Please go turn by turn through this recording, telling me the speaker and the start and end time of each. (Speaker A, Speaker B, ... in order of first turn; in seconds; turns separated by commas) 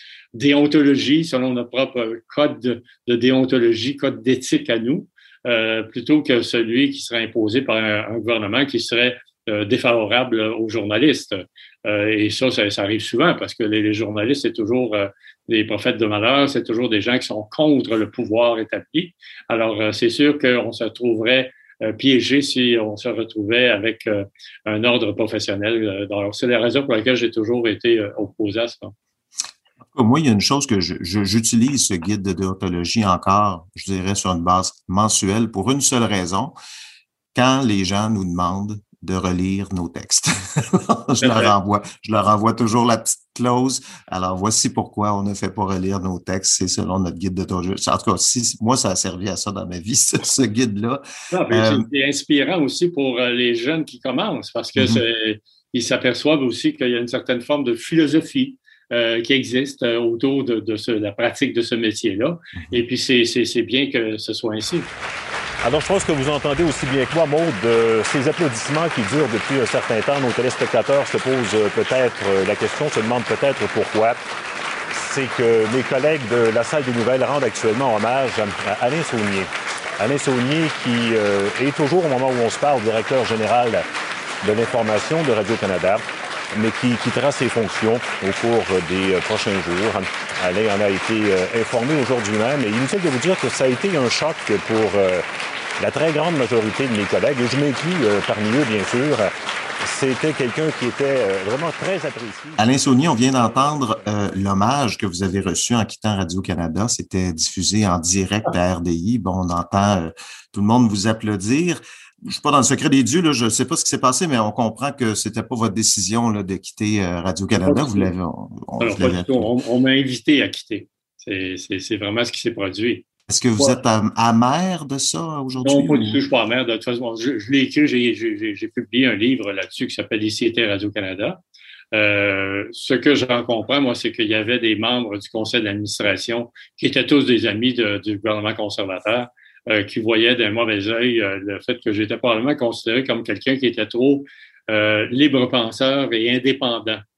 Speaker A: 0.3-28.9, Speaker B: 29.9-36.5, Speaker B: 37.3-51.8, Speaker A: 41.2-41.5, Speaker A: 51.3-64.9, Speaker B: 54.8-55.0, Speaker C: 65.6-74.2, Speaker C: 75.0-83.8, Speaker C: 84.4-95.2, Speaker C: 95.8-99.3, Speaker C: 99.8-102.6, Speaker B: 102.6-119.5, Speaker A: 117.6-118.1, Speaker A: 118.8-123.0, Speaker B: 123.3-126.2, Speaker A: 125.6-131.4, Speaker A: 131.9-147.0